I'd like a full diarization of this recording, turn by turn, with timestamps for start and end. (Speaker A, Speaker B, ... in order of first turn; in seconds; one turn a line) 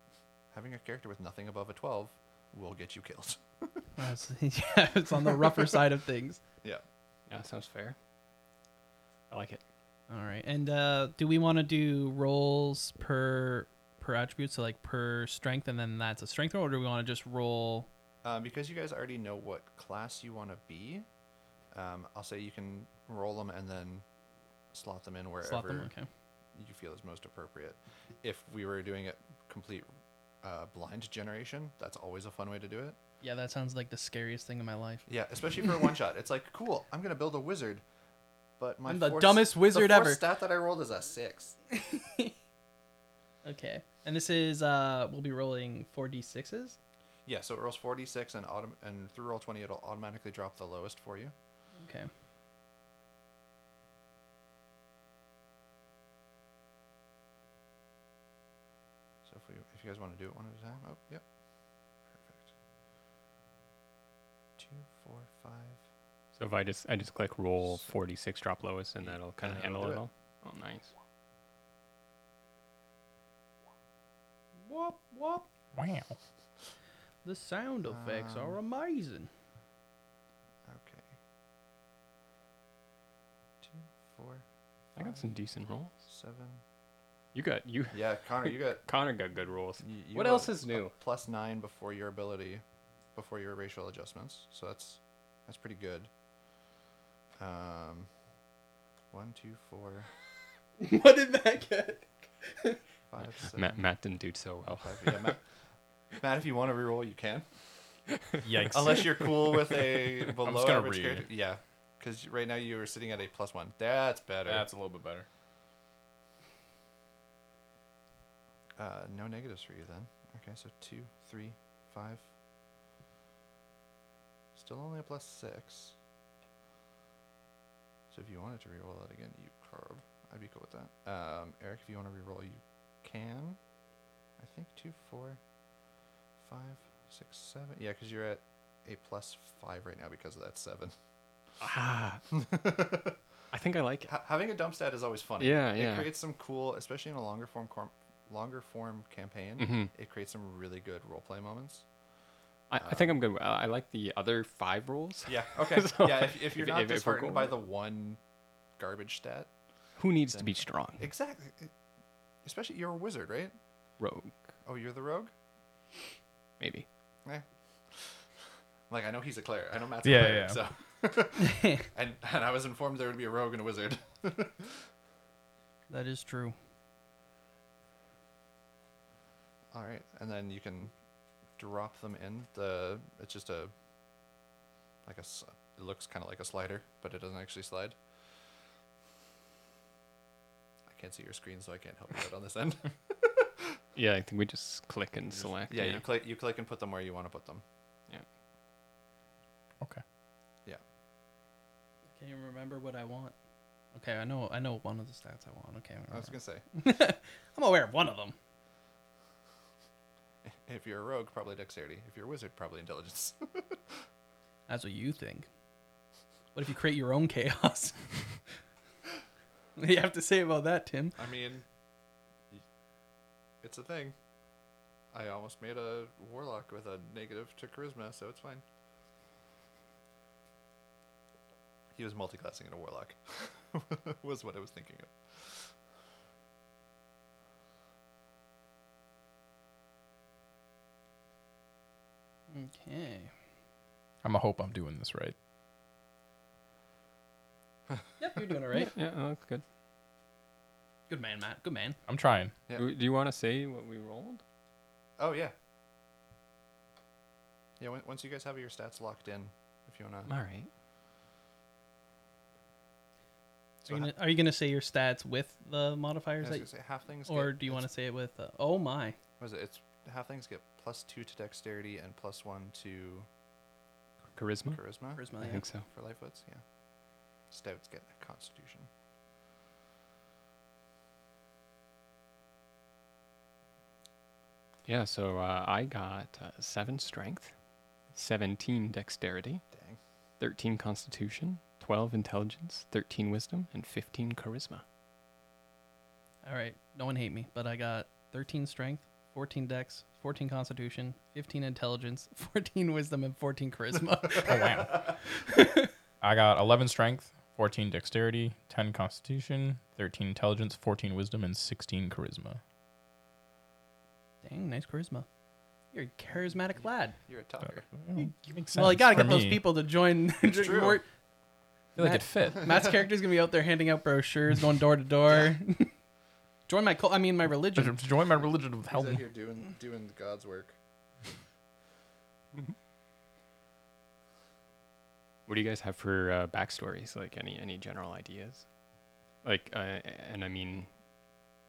Speaker A: 0.5-3.9
Speaker B: 4.0-6.4
Speaker A: 5.2-5.8
Speaker C: 7.3-8.0
Speaker C: 9.3-9.6
Speaker B: 10.1-17.9
Speaker A: 18.2-21.1
Speaker A: 21.7-24.0
Speaker A: 24.7-25.9
Speaker B: 25.4-26.1
Speaker A: 26.5-29.9
Speaker A: 30.4-33.0
Speaker B: 33.2-35.0
Speaker A: 35.1-37.8
Speaker A: 38.6-41.6
Speaker B: 38.9-40.2
Speaker B: 41.7-42.3
Speaker B: 43.4-46.8
Speaker A: 47.2-51.3
Speaker B: 51.8-52.1
Speaker A: 59.2-61.2
Speaker A: 62.1-62.5
Speaker A: 64.6-65.8
Speaker C: 66.3-70.9
Speaker A: 69.0-70.0
Speaker B: 74.7-75.4
Speaker D: 75.7-76.2
Speaker B: 77.2-79.3
Speaker A: 77.8-78.5
Speaker A: 80.6-81.1
Speaker A: 83.6-84.4
Speaker C: 85.0-85.9
Speaker A: 86.0-86.6
Speaker C: 87.3-90.9
Speaker A: 87.9-88.8
Speaker A: 89.8-92.6
Speaker A: 93.1-96.1
Speaker A: 97.4-98.1
Speaker A: 99.1-100.1
Speaker B: 100.8-102.8
Speaker A: 103.1-103.8
Speaker C: 103.4-105.4
Speaker A: 104.8-105.4
Speaker A: 106.1-107.5
Speaker C: 108.1-108.4
Speaker D: 108.4-109.5
Speaker A: 108.7-114.7
Speaker D: 110.4-111.2
Speaker D: 114.5-115.2
Speaker A: 118.8-122.3
Speaker A: 124.5-126.0
Speaker A: 128.1-133.6
Speaker A: 134.4-135.4
Speaker A: 136.4-140.9
Speaker C: 141.6-142.4
Speaker A: 142.3-143.2
Speaker C: 143.5-144.1
Speaker A: 144.1-151.8
Speaker C: 145.4-146.1
Speaker C: 149.6-149.9
Speaker C: 152.7-157.6
Speaker A: 152.8-153.1
Speaker A: 155.3-158.2
Speaker A: 158.8-159.5
Speaker C: 160.0-161.1
Speaker A: 160.3-161.7
Speaker A: 162.4-163.6
Speaker C: 164.0-164.3
Speaker A: 164.6-165.3
Speaker C: 166.6-166.9
Speaker A: 167.2-168.3
Speaker A: 168.9-174.9
Speaker D: 170.0-170.6
Speaker B: 171.4-171.8
Speaker B: 175.9-176.6
Speaker A: 179.7-180.9
Speaker A: 181.6-183.7
Speaker A: 185.0-188.0
Speaker A: 190.9-193.8
Speaker C: 193.9-196.0
Speaker A: 195.4-197.6
Speaker B: 202.2-203.3
Speaker B: 203.9-208.3
Speaker A: 206.1-206.6
Speaker A: 210.4-214.0
Speaker B: 214.7-215.5
Speaker B: 216.5-218.4
Speaker B: 219.8-221.2
Speaker A: 221.2-221.6
Speaker A: 223.6-224.2
Speaker A: 225.1-228.6
Speaker A: 231.9-235.7
Speaker B: 242.5-243.3
Speaker D: 244.2-245.3
Speaker B: 248.2-248.9
Speaker C: 248.7-249.6
Speaker B: 251.1-252.0
Speaker D: 252.1-252.5
Speaker C: 252.7-254.4
Speaker A: 255.2-255.5
Speaker A: 257.8-260.3
Speaker C: 260.3-260.7
Speaker B: 263.8-266.7
Speaker A: 263.9-264.1
Speaker A: 266.4-267.9
Speaker B: 267.2-269.2
Speaker A: 269.4-273.3
Speaker C: 274.3-274.8
Speaker A: 274.7-276.6
Speaker B: 275.1-275.6
Speaker C: 275.4-275.9
Speaker A: 277.5-278.9
Speaker C: 284.8-287.5
Speaker C: 288.1-289.6
Speaker A: 289.7-290.0
Speaker C: 290.4-294.8
Speaker B: 296.4-304.7
Speaker D: 304.3-305.1
Speaker B: 305.2-305.9
Speaker D: 306.2-312.6
Speaker B: 314.4-315.3
Speaker B: 315.9-317.2
Speaker A: 317.3-317.9
Speaker D: 317.9-319.6
Speaker B: 318.1-321.1
Speaker A: 320.5-321.0
Speaker D: 321.9-322.8
Speaker B: 322.0-325.9
Speaker A: 325.3-325.5
Speaker B: 326.7-328.0
Speaker D: 327.7-329.2
Speaker A: 328.9-330.8
Speaker C: 335.5-338.6
Speaker C: 339.4-340.9